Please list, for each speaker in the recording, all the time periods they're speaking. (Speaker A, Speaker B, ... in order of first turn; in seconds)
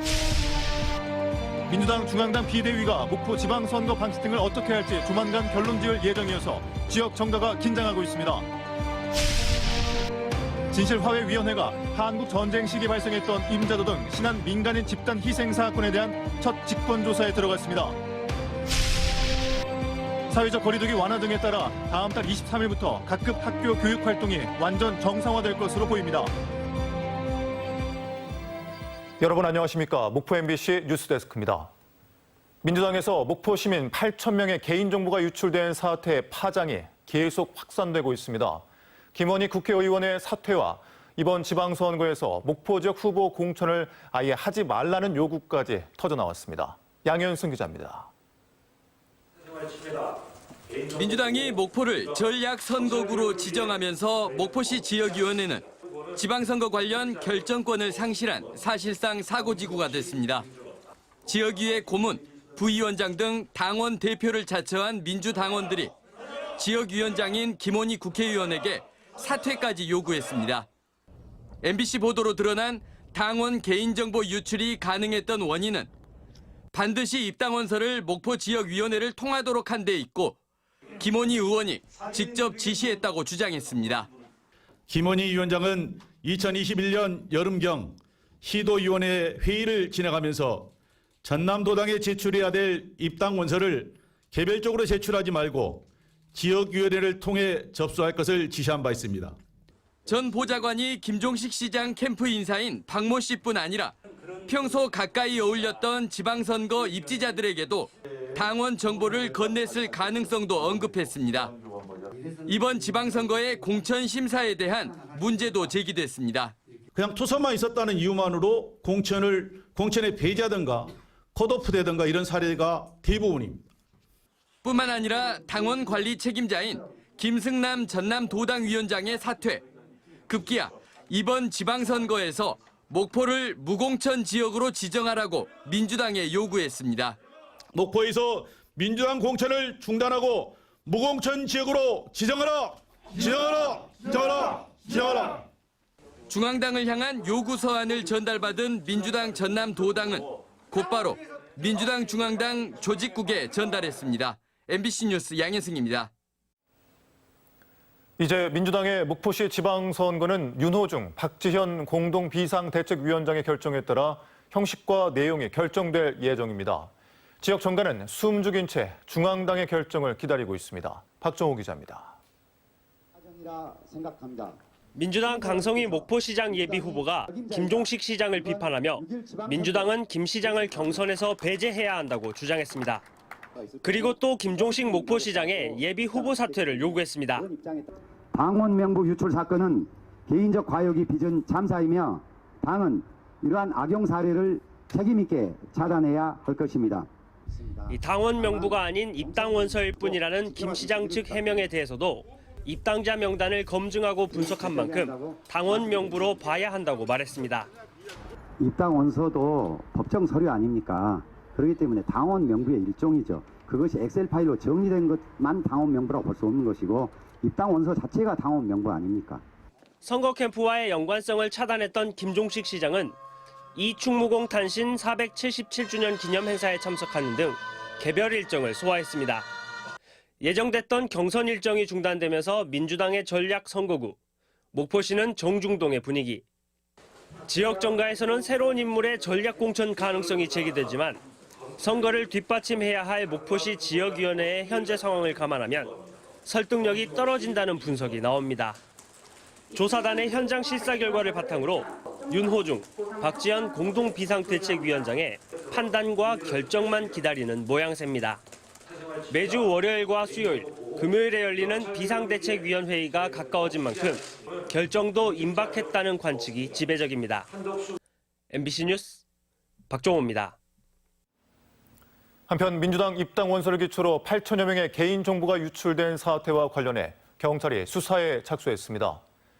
Speaker A: 1.7-8.5, 10.7-18.0, 20.3-26.3, 29.2-31.7, 32.6-38.6, 39.1-48.1, 158.2-172.2, 272.5-279.2
Speaker B: 50.9-60.5, 61.3-65.9, 66.6-70.7, 71.6-75.9, 76.7-80.4, 81.0-84.1, 100.1-111.5, 112.5-116.5, 124.6-129.6, 130.3-137.2, 146.3-156.1
Speaker C: 84.9-90.7, 91.2-99.4, 116.9-123.7, 137.7-145.4
Speaker D: 173.2-174.6, 175.5-179.9, 183.7-201.6, 204.3-206.2, 208.6-219.4
Speaker E: 174.9-183.1, 183.8-187.5, 197.9-207.7, 220.0-223.2, 223.8-229.5, 230.4-234.2, 234.7-236.4, 237.5-241.2, 241.8-248.8, 249.7-258.4, 259.3-267.5, 268.5-269.2, 269.9-270.6